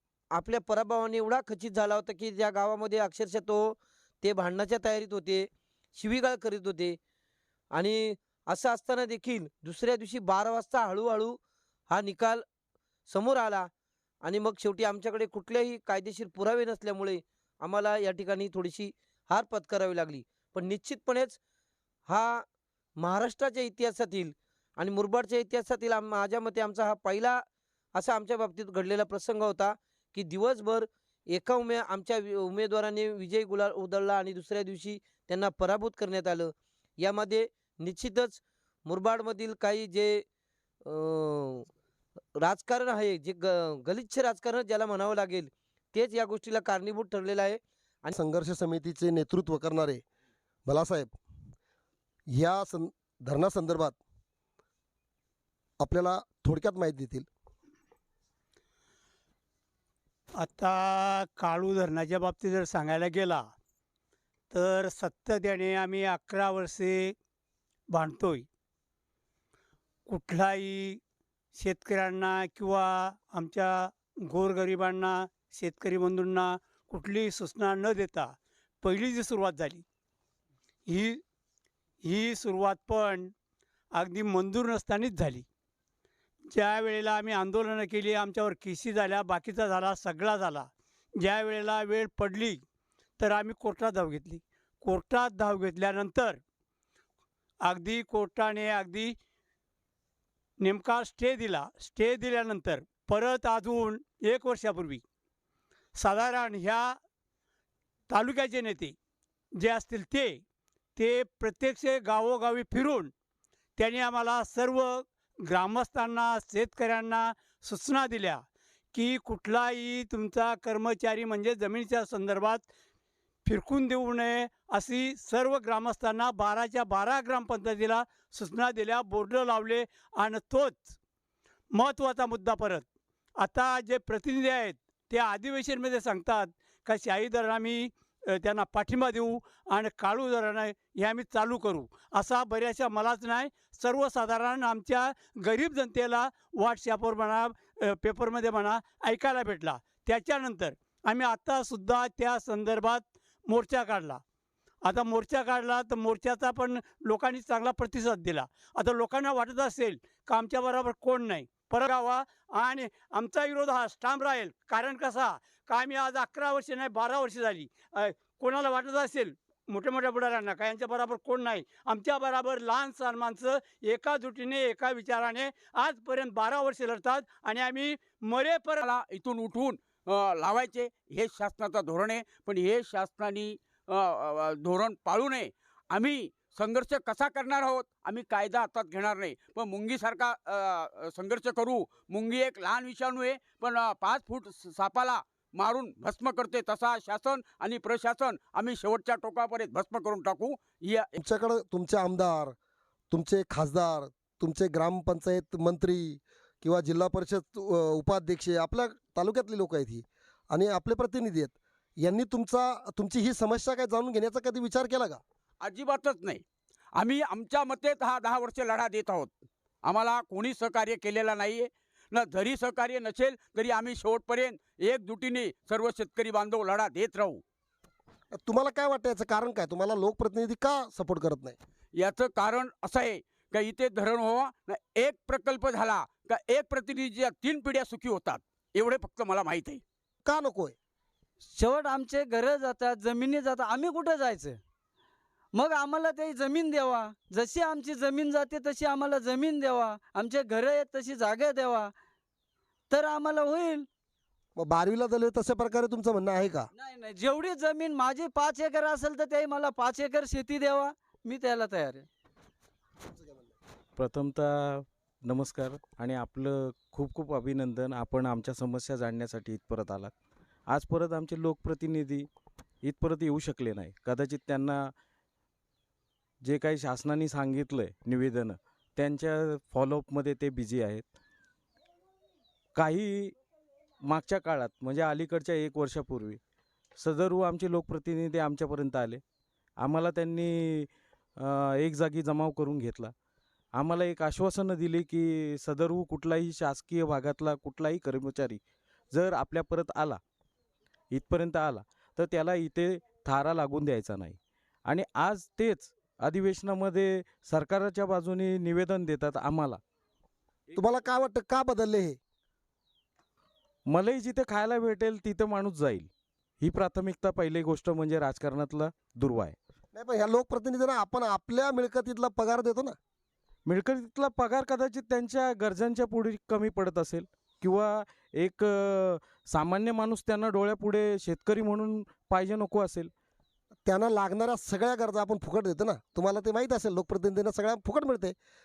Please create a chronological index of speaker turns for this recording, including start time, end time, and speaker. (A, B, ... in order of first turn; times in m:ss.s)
0:00.3-0:07.0 A
0:07.7-0:11.4 A
0:11.9-0:12.4 A
0:13.1-0:13.7 A
0:14.2-0:21.4 A
0:22.1-0:22.4 A
0:23.0-0:40.2 A
0:40.8-0:41.6 A
0:42.4-0:48.1 A
0:48.1-0:50.0 B
0:50.7-0:51.1 B
0:52.3-0:54.0 B
0:55.8-0:57.3 B
1:00.4-1:03.5 C
1:04.5-1:07.1 C
1:07.9-1:08.4 C
1:10.1-1:11.0 C
1:11.5-1:19.8 C
1:20.9-1:21.2 C
1:22.0-1:23.3 C
1:23.9-1:25.4 C
1:26.5-1:30.7 C
1:31.2-1:32.6 C
1:33.2-1:36.4 C
1:37.6-1:39.2 C
1:40.6-1:45.0 C
1:46.0-1:46.9 C
1:48.1-1:48.9 C
1:49.6-1:50.4 C
1:51.0-1:53.1 C
1:53.8-1:58.4 C
1:58.9-2:02.6 C
2:03.4-2:10.9 C
2:11.7-2:12.8 C
2:13.4-2:34.2 C
2:34.8-2:58.8 C
2:58.8-3:21.1 D
3:21.2-3:22.6 B
3:23.1-3:35.2 B
3:35.6-3:47.4 D
3:48.3-3:51.6 B
3:51.9-3:59.8 D
4:00.2-4:00.7 B
4:01.5-4:04.6 E
4:05.5-4:11.9 E
4:12.9-4:13.9 E
4:14.6-4:16.7 B
4:16.8-4:22.1 E
4:23.1-4:23.4 B
4:24.0-4:30.1 F
4:30.7-4:32.3 F
4:32.8-4:34.9 F
4:36.4-4:41.0 F
4:42.7-4:43.3 F
4:44.0-4:46.4 F
4:47.0-4:49.2 F
4:49.8-4:53.1 F
4:53.7-4:58.6 F
4:59.1-5:00.2 F
5:01.1-5:09.8 F
5:10.7-5:12.2 B
5:13.9-5:16.1 F
5:16.6-5:19.6 F
5:19.9-5:23.0 B
5:23.6-5:33.1 F
5:33.8-5:38.4 B